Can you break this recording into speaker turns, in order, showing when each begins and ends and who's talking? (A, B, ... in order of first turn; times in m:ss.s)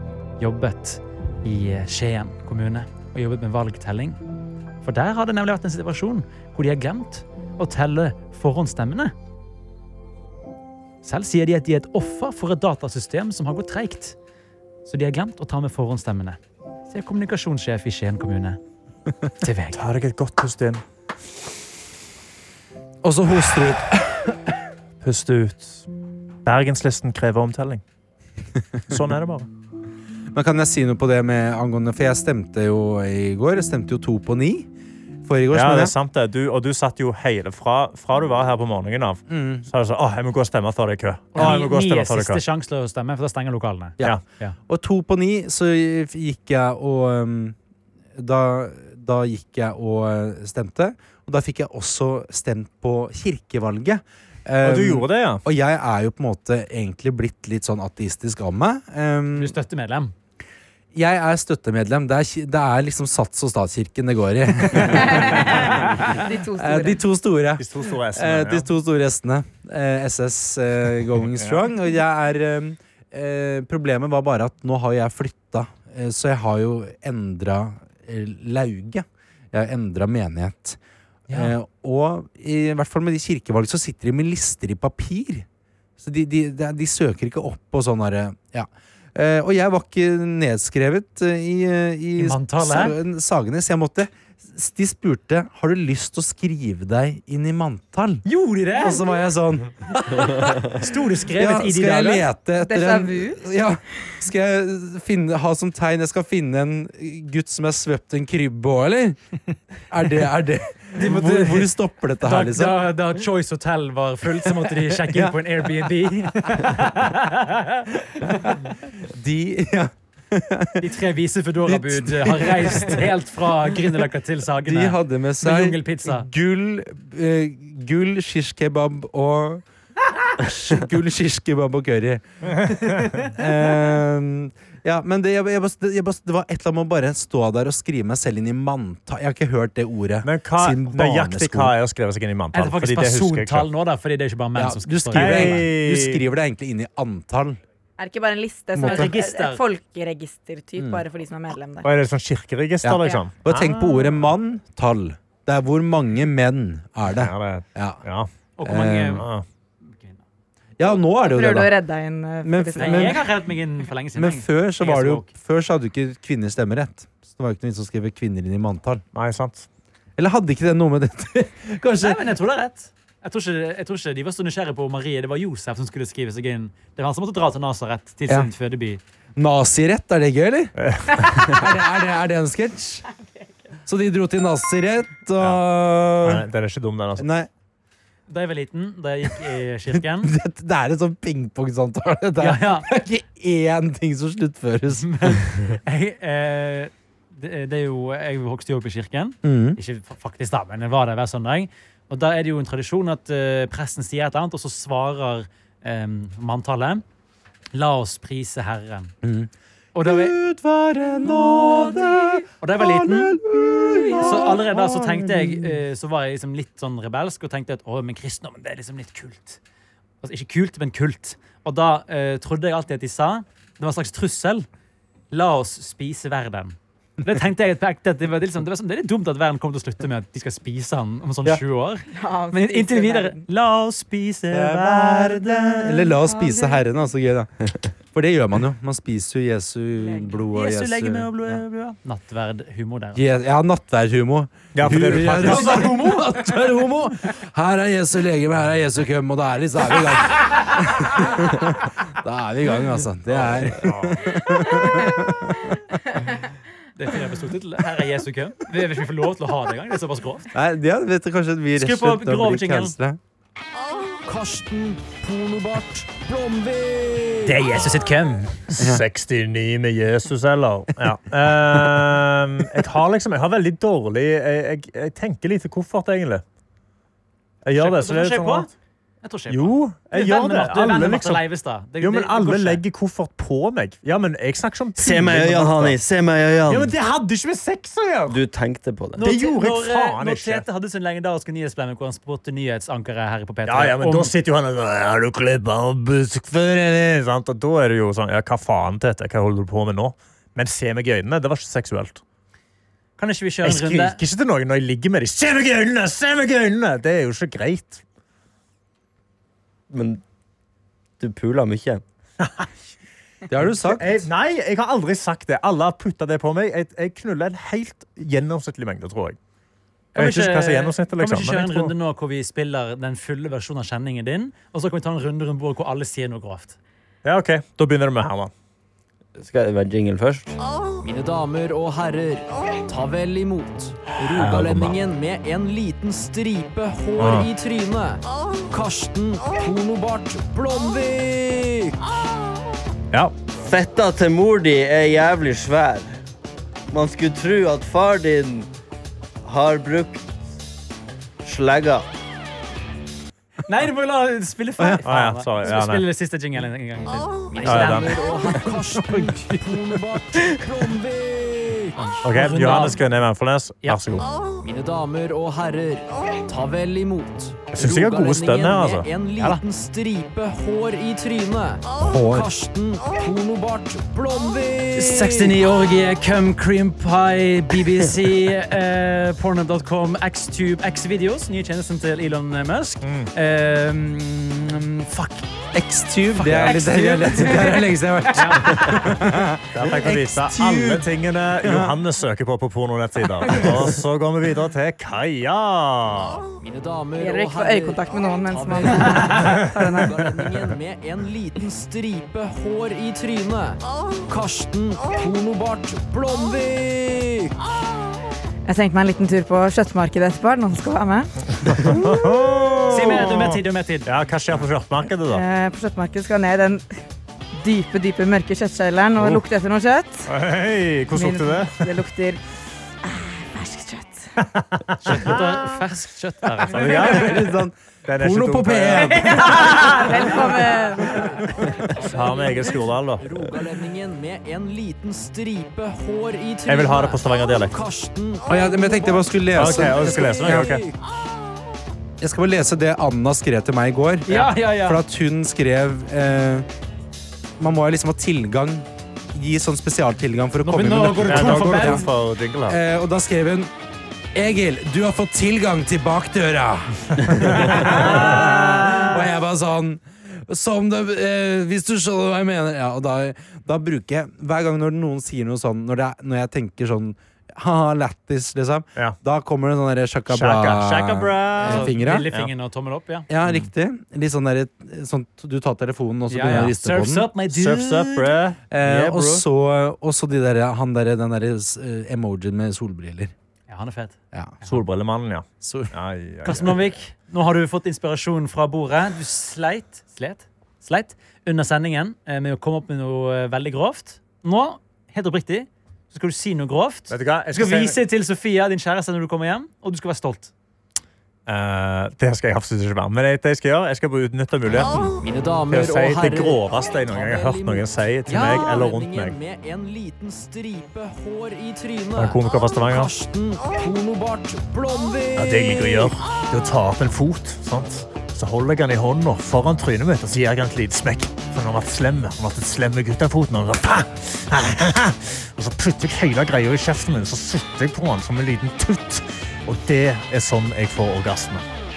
0:00.4-0:04.2 A
0:04.8-0:09.1 A
0:11.0-0:14.2 A
0:14.8-0:18.6 A
0:19.4-0:19.8 A
0:19.7-0:20.8 B
0:23.0-0:24.3 C
0:25.0-0:25.8 B
0:26.4-0:27.8 B
0:28.9-0:29.5 B
0:30.3-0:34.7 C
0:35.2-0:35.9 C
0:35.5-0:42.4 B
0:39.3-0:39.7 C
0:41.3-0:44.5 A
0:44.0-0:47.6 C
0:48.2-0:59.5 C
0:54.6-0:55.4 B
0:59.3-1:00.1 A
1:00.9-1:20.8 C
1:04.9-1:07.0 D
1:07.6-1:08.7 B
1:11.4-1:11.6 B
1:21.3-1:21.5 A
1:21.3-1:25.4 C
1:26.0-1:38.2 C
1:32.2-1:32.9 A
1:38.2-1:39.0 A
1:38.7-1:49.2 C
1:40.7-1:42.3 A
1:42.6-1:43.5 D
1:49.9-1:52.8 C
1:50.9-1:51.7 A
1:52.2-1:58.5 A
1:54.5-1:56.7 C
1:58.2-2:00.9 C
2:00.8-2:06.3 A
2:01.6-2:03.1 C
2:04.6-2:09.6 C
2:10.4-2:21.7 C
2:12.6-2:13.0 B
2:20.2-2:23.7 B
2:22.5-2:25.7 A
2:24.6-2:27.6 C
2:25.1-2:26.2 B
2:28.0-2:31.9 D
2:28.8-2:29.1 C
2:28.8-2:29.6 A
2:30.8-2:31.0 C
2:31.8-2:34.2 B
2:32.8-2:38.0 C
2:37.1-2:38.3 B
2:38.6-2:39.2 A
2:38.6-2:39.3 C
2:39.2-2:39.4 B
2:39.8-2:40.2 A
2:40.8-2:41.7 C
2:41.2-2:43.2 D
2:42.4-2:43.2 C
2:42.8-2:45.3 A
2:44.1-2:49.0 C
2:49.1-2:49.7 B
2:50.2-2:52.2 C
2:52.0-2:59.0 A
2:59.4-3:03.0 C
3:00.8-3:01.6 B
3:03.8-3:06.4 C
3:06.2-3:07.3 B
3:07.2-3:07.5 C
3:08.3-3:10.3 A
3:09.9-3:15.3 C
3:12.4-3:12.9 A
3:14.9-3:27.0 A
3:19.4-3:19.8 C
3:27.7-3:29.1 A
3:29.2-3:29.5 C
3:29.9-3:30.4 A
3:30.0-3:35.8 C
3:32.6-3:33.4 A
3:34.0-3:39.6 A
3:40.2-3:44.6 A
3:45.3-3:56.1 A
3:52.1-3:53.4 D
3:54.5-3:57.5 C
3:56.2-3:56.8 D
3:58.1-4:01.6 C
4:00.0-4:00.4 D
4:00.5-4:03.2 A
4:03.1-4:16.0 C
4:04.7-4:05.9 B
4:05.1-4:06.5 A
4:13.3-4:14.3 B
4:17.0-4:20.5 A
4:20.5-4:23.2 C
4:21.8-4:22.9 A
4:24.2-4:27.6 E
4:27.4-4:28.8 A
4:27.6-4:27.9 B
4:28.7-4:36.4 B
4:37.6-4:38.7 B
4:37.8-4:38.7 A
4:39.2-4:42.8 A
4:39.5-4:41.4 B
4:42.0-4:46.0 B
4:45.0-4:46.9 F
4:46.7-4:48.4 B
4:48.3-4:49.2 F
4:49.2-4:54.3 A
4:49.2-4:50.6 B
4:53.6-5:02.2 B
5:03.2-5:04.2 A
5:03.6-5:08.0 B
5:09.9-5:10.2 F
5:11.2-5:12.0 F
5:12.4-5:12.7 B
5:13.5-5:14.2 C
5:13.8-5:19.4 B
5:20.1-5:21.9 B
5:20.1-5:26.8 A
5:27.2-5:28.5 B
5:29.4-5:30.6 F
5:31.0-5:42.0 E
5:34.3-5:35.0 B
5:37.2-5:37.5 B
5:43.6-5:46.2 F
5:46.9-5:48.7 F
5:49.4-5:50.3 F
5:51.4-5:52.0 F
5:53.7-5:59.6 A
5:55.0-5:56.0 B
5:57.5-6:02.0 E
5:57.6-5:58.1 B
6:02.0-6:03.0 A
6:02.2-6:04.3 B
6:04.6-6:15.6 E
6:07.7-6:09.4 B
6:12.0-6:12.5 C
6:15.0-6:24.3 A
6:23.0-6:23.3 B
6:24.2-6:24.8 C
6:25.1-6:25.4 A
6:25.7-6:31.1 C
6:26.3-6:29.0 A
6:29.7-6:36.4 B
6:31.6-6:32.0 C
6:33.4-6:33.8 C
6:36.6-6:47.6 E
6:37.2-6:40.2 D
6:39.4-6:39.7 B
6:48.6-6:51.3 D
6:51.6-6:55.4 B
6:52.9-6:54.1 A
6:55.3-6:56.9 D
6:57.5-7:00.3 D
6:59.2-6:59.4 B
7:00.3-7:01.9 B
7:01.1-7:02.4 D
7:03.0-7:04.3 D
7:04.4-7:05.5 B
7:05.0-7:07.1 A
7:06.6-7:10.5 B
7:06.8-7:09.9 C
7:09.0-7:11.7 D
7:11.9-7:21.0 E
7:12.0-7:13.4 B
7:16.7-7:17.8 B
7:18.5-7:20.8 C
7:19.5-7:20.8 B
7:22.2-7:26.7 C
7:24.3-7:25.0 A
7:27.6-7:32.1 C
7:30.6-7:32.0 A
7:31.3-7:32.8 B
7:32.7-7:33.7 C
7:34.3-7:52.3 C
7:37.3-7:39.1 B
7:50.3-7:52.5 B
7:51.6-7:53.3 A
7:53.3-7:57.3 C
7:56.3-7:58.2 A
7:57.5-7:59.4 B
7:58.7-8:03.3 C
8:03.7-8:04.8 A
8:04.6-8:06.9 B
8:05.6-8:05.9 C
8:06.4-8:20.5 A
8:17.1-8:18.0 B
8:21.5-8:25.2 B
8:25.2-8:36.1 E
8:25.7-8:29.4 B
8:28.3-8:28.8 A
8:32.2-8:33.1 B
8:35.4-8:51.7 B